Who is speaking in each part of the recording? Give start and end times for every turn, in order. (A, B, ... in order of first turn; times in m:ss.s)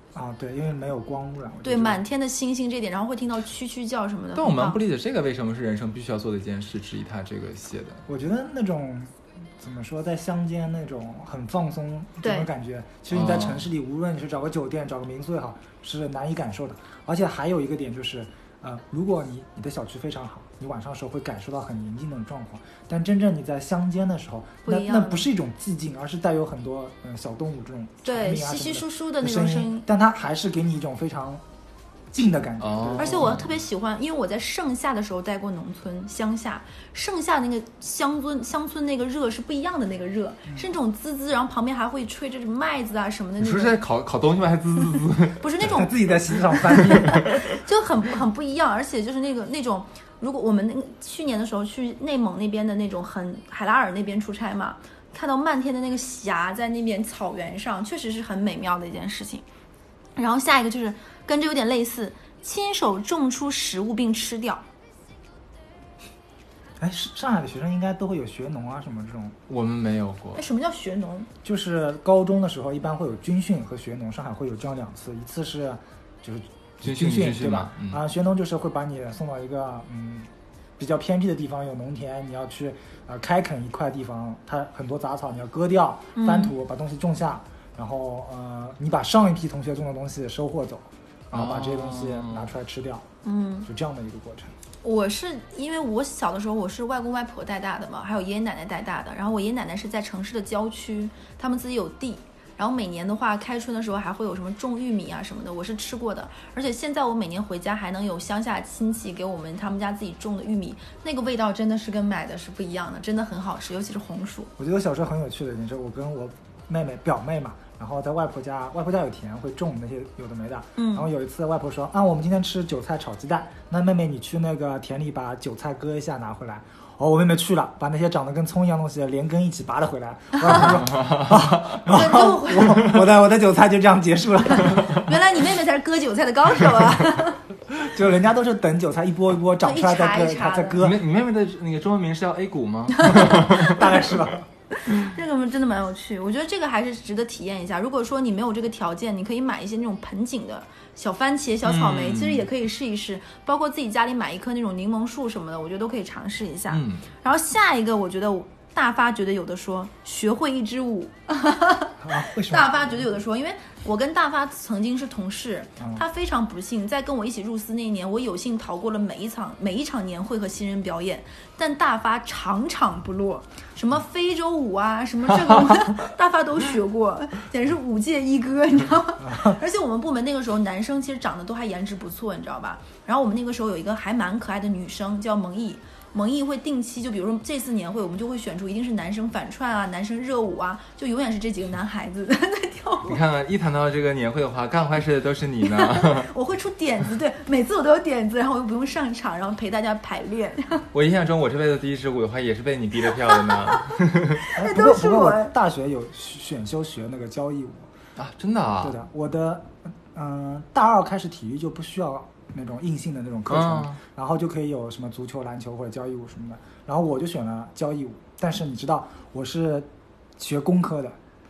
0:00.1-0:02.0 A
0:01.6-0:04.8 B
0:04.4-0:08.0 C
0:08.1-0:31.4 A
0:12.2-0:12.5 B
0:13.1-0:13.6 C
0:24.6-0:25.3 B
0:28.0-0:29.9 B
0:32.1-0:33.4 A
0:32.6-0:33.4 C
0:33.0-0:43.8 B
0:43.4-0:45.9 C
0:45.4-0:45.9 B
0:45.6-0:47.3 A
0:46.6-0:59.4 B
0:46.8-0:47.4 C
1:00.2-1:04.6 B
1:06.8-1:09.4 A
1:09.5-1:10.4 C
1:10.4-1:11.3 B
1:11.4-1:33.1 A
1:16.8-1:18.0 C
1:26.2-1:26.5 B
1:31.3-1:32.5 C
1:33.2-1:33.7 B
1:33.6-1:34.5 A
1:34.8-1:54.5 B
1:54.6-2:15.1 A
2:00.8-2:01.1 B
2:10.9-2:11.3 C
2:11.8-2:12.9 B
2:14.7-2:17.4 B
2:17.8-2:21.0 A
2:19.6-2:20.8 B
2:20.8-2:23.8 C
2:23.0-2:23.8 B
2:23.3-2:24.5 A
2:24.8-3:13.2 B
2:31.6-2:32.5 C
2:36.7-2:37.0 C
2:42.0-2:43.1 A
2:59.2-2:59.6 A
3:13.1-3:16.3 C
3:15.6-3:20.9 B
3:20.9-3:24.4 C
3:23.3-3:25.5 B
3:24.6-3:27.9 A
3:28.2-3:29.0 C
3:28.8-3:41.2 A
3:33.5-3:34.0 C